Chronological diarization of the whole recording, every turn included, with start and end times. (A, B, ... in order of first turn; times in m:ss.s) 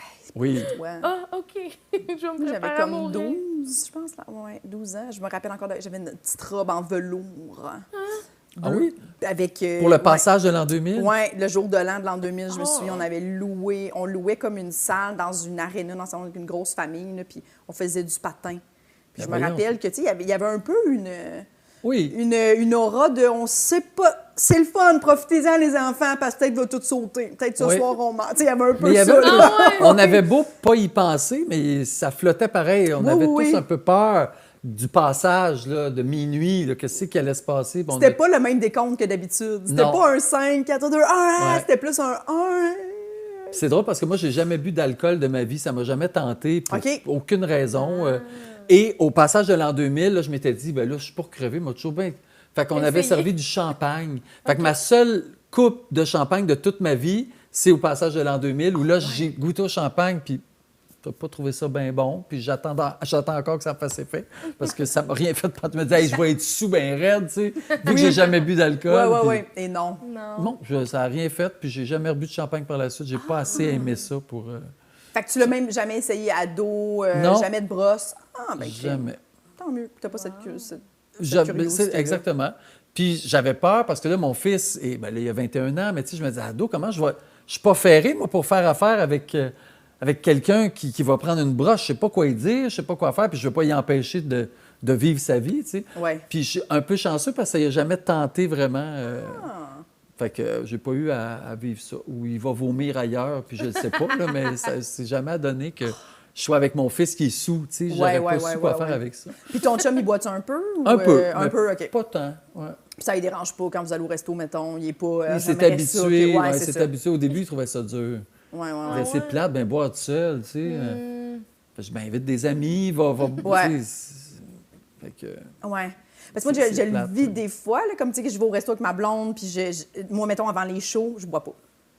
0:00.3-0:00.7 A
0:00.6-0:01.1 B
0:01.0-0:03.4 C
0:02.4-0:07.8 B
0:07.9-0:08.2 C
0:08.6-0:10.2 B
0:08.6-0:09.0 A
0:09.8-0:11.1 A
0:10.9-0:18.6 B
0:12.5-0:13.0 C
0:19.1-0:21.4 B
0:19.2-0:19.7 A
0:21.8-0:22.2 A
0:22.1-0:30.2 B
0:27.6-0:27.9 A
0:28.8-0:38.2 A
0:29.2-0:29.9 C
0:33.0-0:33.6 B
0:37.9-0:43.6 B
0:39.7-0:40.0 A
0:41.4-0:41.6 A
0:43.5-1:00.4 A
0:46.7-0:47.0 B
0:47.8-0:48.4 C
0:52.7-0:53.3 C
0:54.4-0:54.7 C
1:01.0-1:09.4 A
1:07.8-1:08.3 B
1:08.8-1:10.0 B
1:10.0-1:10.5 C
1:10.4-1:14.7 A
1:13.2-1:13.9 B
1:13.5-1:13.8 C
1:15.1-1:19.0 B
1:17.1-1:17.5 A
1:18.6-1:19.2 A
1:19.6-1:22.2 B
1:20.2-1:20.6 C
1:21.2-1:39.4 A
1:35.9-1:36.2 B
1:39.1-1:39.8 B
1:40.2-1:49.4 A
1:47.9-1:51.9 B
1:50.8-1:52.8 A
1:53.0-1:56.9 B
1:55.3-1:58.2 A
1:58.5-1:59.1 B
1:58.8-1:59.4 C
1:58.9-2:01.0 A
2:00.6-2:01.4 C
2:01.8-2:04.4 A
2:03.4-2:03.8 B
2:05.0-2:05.5 A
2:05.6-2:11.6 B
2:06.4-2:07.4 A